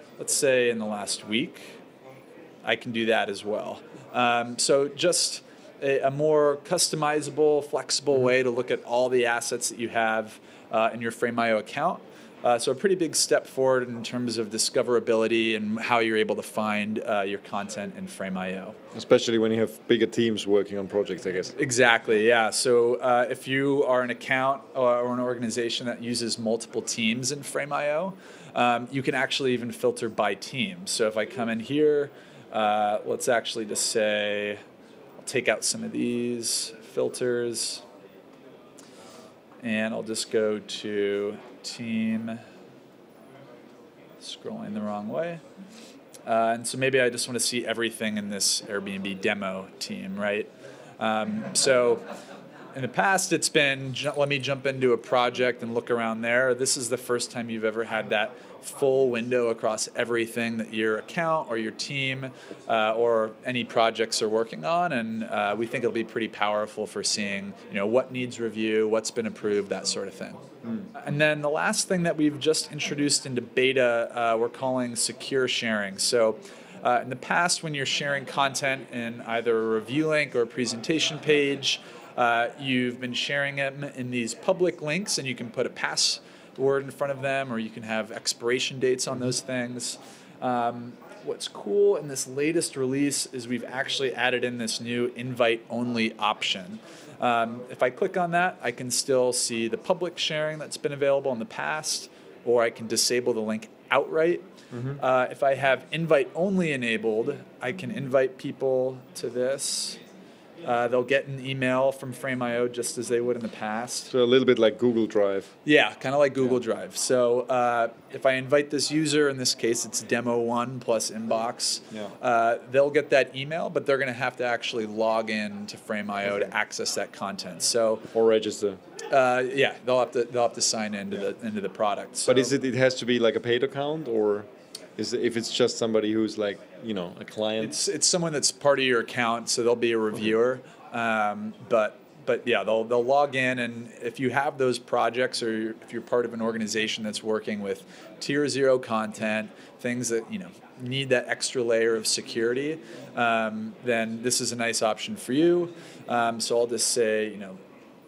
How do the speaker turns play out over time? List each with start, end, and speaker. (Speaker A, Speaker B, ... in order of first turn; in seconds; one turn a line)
Speaker A: 0.2-1.8
Speaker A: 2.6-18.8
Speaker B: 18.9-21.5
Speaker A: 21.6-34.6
Speaker A: 35.2-37.8
Speaker A: 39.6-42.4
Speaker A: 44.2-45.4
Speaker A: 46.3-52.0
Speaker A: 52.7-70.4
Speaker A: 70.9-104.4
Speaker B: 104.7-105.0
Speaker A: 105.0-110.0
Speaker A: 110.6-114.1
Speaker B: 114.1-115.5
Speaker A: 115.7-128.1
Speaker B: 128.1-128.8
Speaker A: 129.1-132.5
Speaker B: 132.3-137.8
Speaker A: 137.6-157.6